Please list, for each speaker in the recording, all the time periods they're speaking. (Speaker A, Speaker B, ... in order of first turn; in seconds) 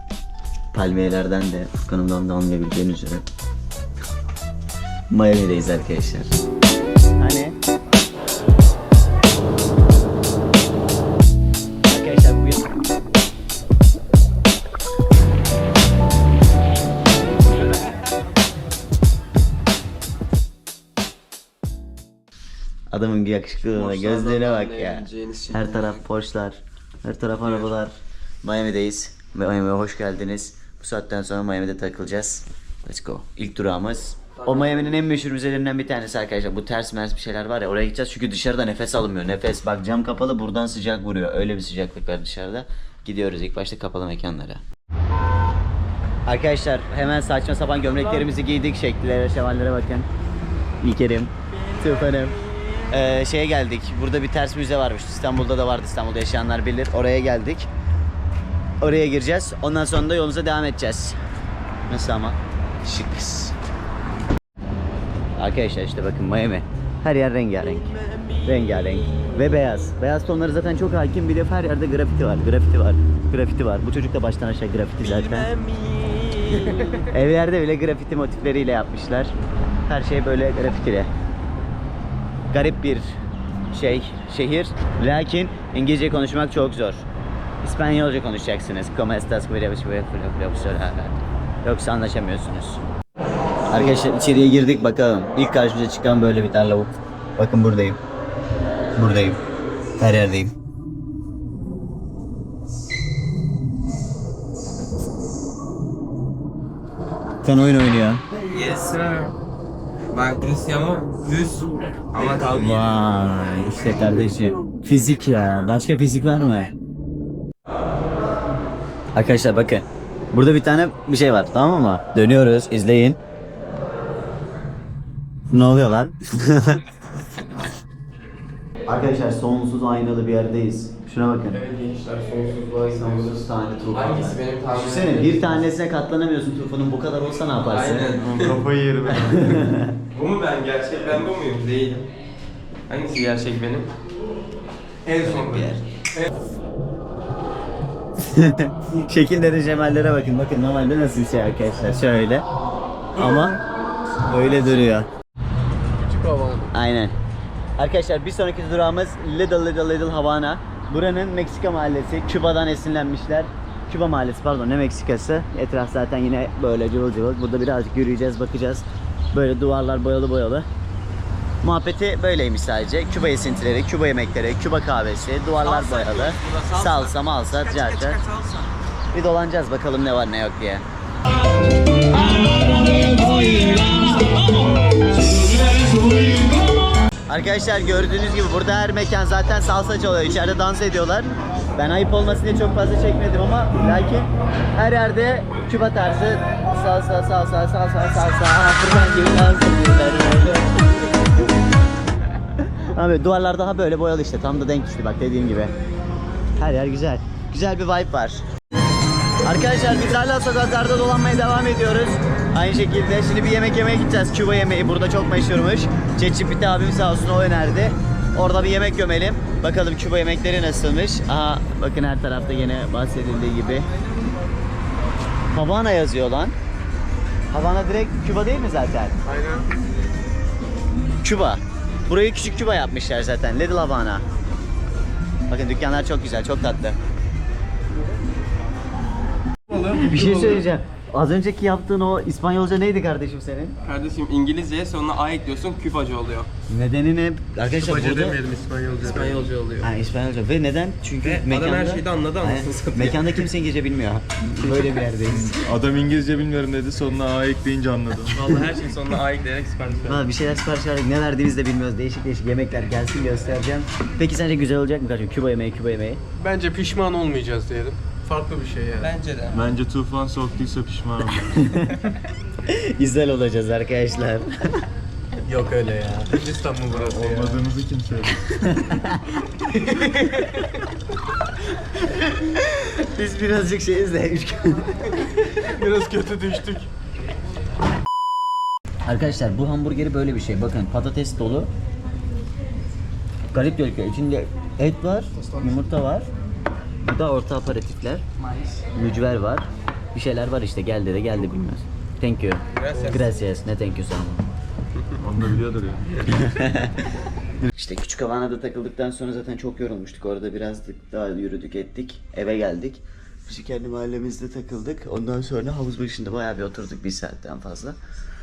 Speaker A: 0.7-3.2, 5.1-6.3, 7.2-7.5, 11.9-12.7, 22.9-44.6, 46.3-50.1, 50.8-52.4, 52.9-57.7, 58.8-61.2, 61.9-63.5, 65.4-67.9, 68.5-75.5, 76.9-79.3, 79.9-81.1, 82.5-83.1, 83.7-87.1, 87.6-92.9, 93.7-98.0, 99.0-99.4, 100.0-100.5, 107.4-108.2, 112.5-116.7, 119.2-123.2, 125.5-126.8, 128.9-131.6, 132.9-138.1, 139.1-139.9, 145.2-145.8, 148.2-152.4, 153.2-153.6, 154.3-155.1, 156.7-157.2, 157.8-170.7, 171.6-178.2, 179.1-180.8, 187.3-200.6, 202.9-205.7, 206.6-208.4, 209.4-223.9, 225.5-226.6, 227.5-229.2, 231.2-234.2, 235.5-237.0, 240.0-243.8, 246.7-248.4, 249.8-255.6, 260.1-266.2, 271.6-271.9, 272.7-274.5, 278.5-279.3, 279.9-280.3, 282.0-285.2, 289.1-291.7, 293.5-296.3, 297.0-298.2, 298.9-304.5, 306.3-307.0, 307.6-318.0
Speaker B: 23.7-26.0, 27.4-27.7, 34.4-35.0, 51.7-52.3, 75.0-77.0, 108.5-109.3, 110.1-113.0, 131.5-135.6, 137.7-138.6, 140.1-142.1, 142.9-143.9, 145.1-146.3, 175.6-178.7, 182.2-185.2, 243.8-246.5, 249.0-249.9, 251.2-253.5, 258.3-260.3, 269.0-269.6, 298.6-298.8, 302.8-303.3
Speaker C: 138.2-139.7, 255.2-258.5, 269.5-271.7, 276.9-278.5, 305.2-306.1
Speaker D: 153.2-153.5, 155.9-156.7, 229.2-229.7, 239.7-240.7, 247.7-249.5, 266.4-269.1, 275.5-277.7, 285.7-286.9, 295.4-295.8